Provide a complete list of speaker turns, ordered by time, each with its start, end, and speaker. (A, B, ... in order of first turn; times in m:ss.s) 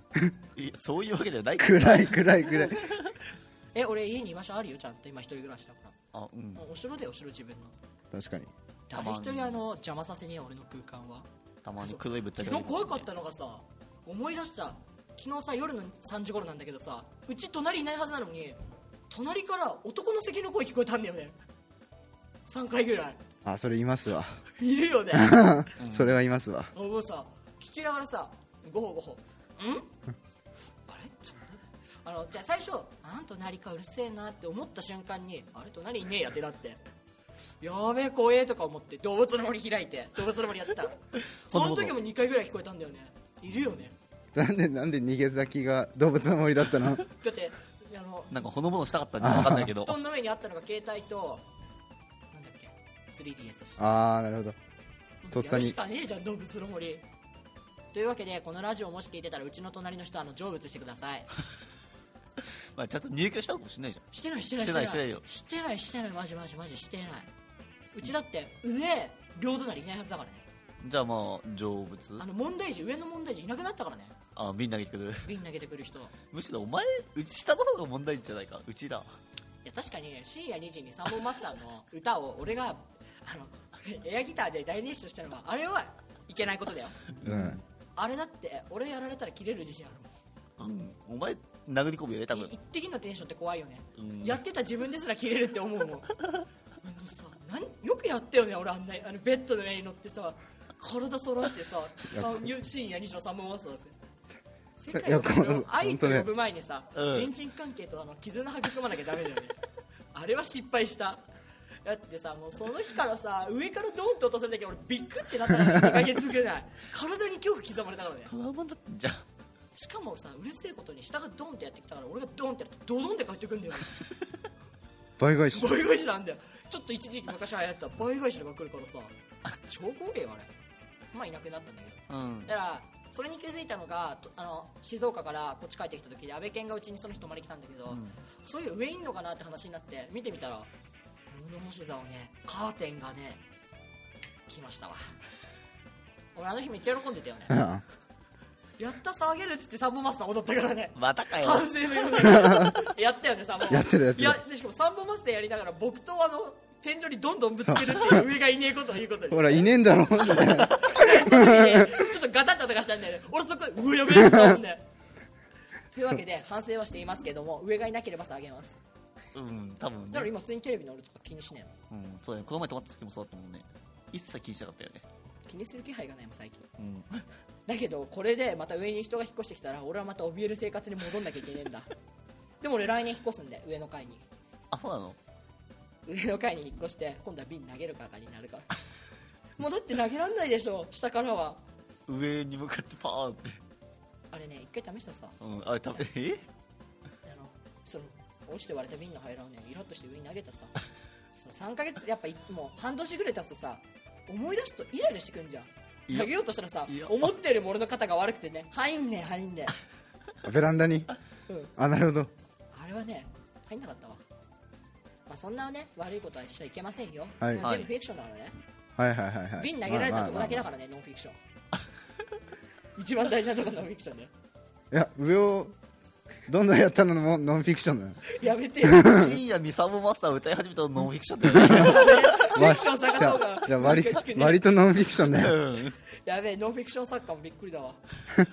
0:00.6-0:03.2 A
0:01.6-0:03.0 B
0:03.8-0:06.0 C
0:06.1-0:06.7 A
0:06.6-0:07.8 C
0:08.1-0:08.5 B
0:08.9-0:11.3 C
0:08.9-0:09.6 A
0:11.6-0:13.1 A
0:11.8-0:18.6 C
0:19.1-0:21.4 C
0:22.5-0:23.2 C
0:23.4-0:24.4 B
0:24.6-0:25.6 C
0:25.1-0:26.7 B
0:25.8-0:26.2 A
0:26.7-0:29.9 C
0:30.9-0:36.8 C
0:37.6-0:43.9 C
0:41.5-0:42.0 A
0:44.3-0:47.1 B
0:47.1-0:48.5 C
0:48.3-0:50.0 A
0:49.2-0:49.7 B
0:49.5-0:51.5 C
0:52.3-0:54.0 C
0:53.8-0:54.6 B
0:55.2-0:57.0 C
0:55.3-0:55.8 B
0:57.9-1:01.3 C
1:02.8-1:05.2 A
1:04.1-1:07.3 C
1:07.9-1:10.5 C
1:10.8-1:12.2 A
1:12.2-1:14.2 C
1:14.4-1:15.3 A
1:15.2-1:16.1 C
1:16.3-1:19.1 A
1:19.6-1:27.0 C
1:27.2-1:27.6 A
1:27.2-1:27.6 B
1:28.0-1:30.1 C
1:30.6-1:32.5 A
1:32.3-1:36.2 C
1:34.0-1:34.4 A
1:36.8-1:43.9 C
1:44.8-1:49.6 C
1:44.9-1:46.3 B
1:47.0-1:47.3 A
1:50.1-1:51.2 C
1:51.8-1:58.3 C
1:55.7-1:56.0 B
1:58.3-1:59.2 A
1:59.7-2:04.0 C
2:05.2-2:05.7 B
2:05.5-2:10.5 C
2:11.1-2:20.7 C
2:12.1-2:12.5 A
2:17.9-2:18.2 A
2:21.3-2:23.4 C
2:24.5-2:25.2 C
2:26.4-2:27.6 C
2:27.5-2:27.8 B
2:28.8-2:39.7 C
2:31.0-2:32.1 A
2:32.3-2:32.8 B
2:33.7-2:34.4 B
2:37.6-2:38.2 B
2:39.3-2:42.1 B
2:40.3-2:44.9 C
2:40.4-2:40.7 A
2:44.1-2:44.6 B
2:45.9-2:48.8 C
2:49.3-2:50.3 A
2:50.1-2:51.7 C
2:51.9-2:55.0 A
2:55.5-2:56.7 C
2:56.8-2:57.3 A
2:57.7-3:01.9 C
3:02.6-3:04.3 C
3:04.7-3:05.2 A
3:06.1-3:08.7 C
3:09.6-3:11.6 C
3:12.1-3:13.6 A
3:14.3-3:15.4 C
3:15.4-3:16.4 A
3:17.2-3:20.7 C
3:21.3-3:29.7 C
3:26.1-3:26.3 A
3:26.9-3:27.3 A
3:30.4-3:31.1 B
3:31.5-3:31.7 C
3:31.8-3:32.3 B
3:32.7-3:34.2 C
3:35.3-3:38.6 C
3:37.4-3:37.7 B
3:37.6-3:37.9 A
3:39.0-3:40.7 B
3:39.6-3:41.4 C
3:43.0-3:44.3 C
3:44.9-3:45.8 B
3:46.5-3:48.2 B
3:48.3-3:49.2 C
3:48.8-3:49.4 B
3:49.0-3:52.5 A
3:51.5-3:55.6 B
3:51.6-3:54.6 C
3:55.3-3:56.0 A
3:56.2-3:58.0 C